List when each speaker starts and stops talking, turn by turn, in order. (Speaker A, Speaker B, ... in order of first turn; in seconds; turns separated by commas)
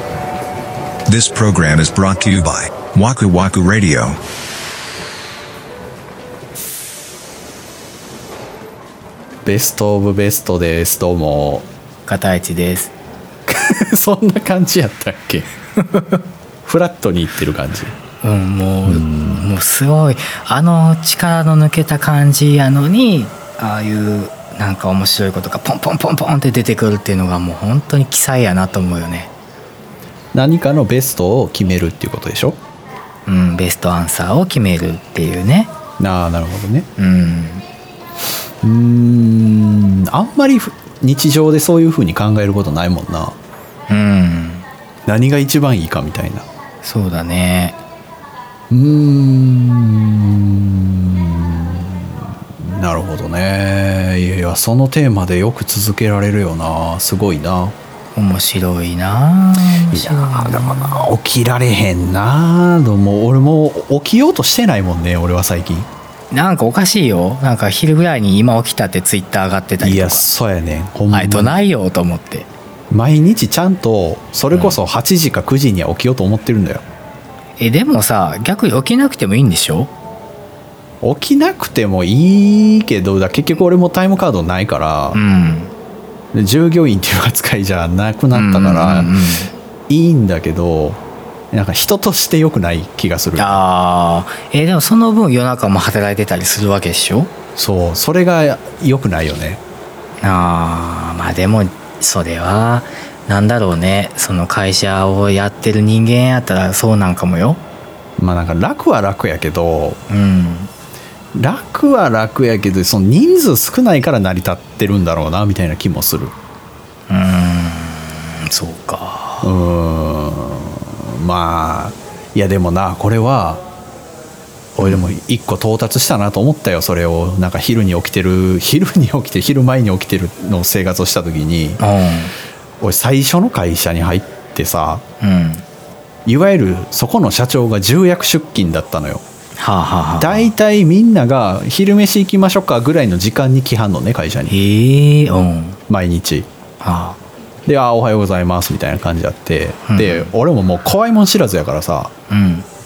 Speaker A: 1.1-4.2, Speaker B: 9.4-11.7, Speaker C: 12.1-12.9, Speaker B: 13.5-15.5, Speaker B: 16.6-17.9, Speaker C: 18.2-29.3, Speaker B: 18.9-19.5, Speaker B: 30.3-32.6, Speaker C: 33.3-35.7, Speaker B: 36.0-36.9, Speaker C: 37.0-37.6, Speaker B: 38.6-43.4, Speaker C: 43.9-44.6, Speaker B: 45.1-46.4, Speaker C: 46.8-47.8, Speaker B: 48.7-57.8, Speaker C: 58.1-61.1, Speaker B: 59.9-65.9, Speaker C: 66.3-70.2, Speaker B: 69.8-71.6, Speaker C: 71.1-72.5, Speaker B: 72.9-76.8, Speaker C: 74.5-74.8, Speaker C: 77.6-79.9, Speaker B: 81.0-85.2, Speaker C: 85.1-85.7, Speaker B: 86.3-89.2, Speaker C: 88.3-89.5, Speaker B: 89.9-91.0, Speaker B: 91.5-93.6, Speaker C: 93.4-97.3, Speaker B: 97.6-99.6, Speaker C: 100.2-107.6, Speaker B: 108.2-110.0, Speaker C: 110.1-110.7, Speaker B: 111.3-116.3, Speaker C: 117.1-119.5, Speaker B: 119.4-123.6, Speaker B: 124.8-131.8, Speaker C: 131.8-132.3, Speaker B: 132.8-135.0, Speaker C: 135.2-135.6, Speaker B: 136.3-139.2, Speaker C: 139.6-140.5, Speaker B: 140.2-144.5, Speaker C: 144.5-145.8, Speaker B: 145.9-146.5, Speaker C: 146.8-147.2, Speaker B: 147.7-152.1, Speaker C: 149.9-150.3, Speaker C: 152.3-152.7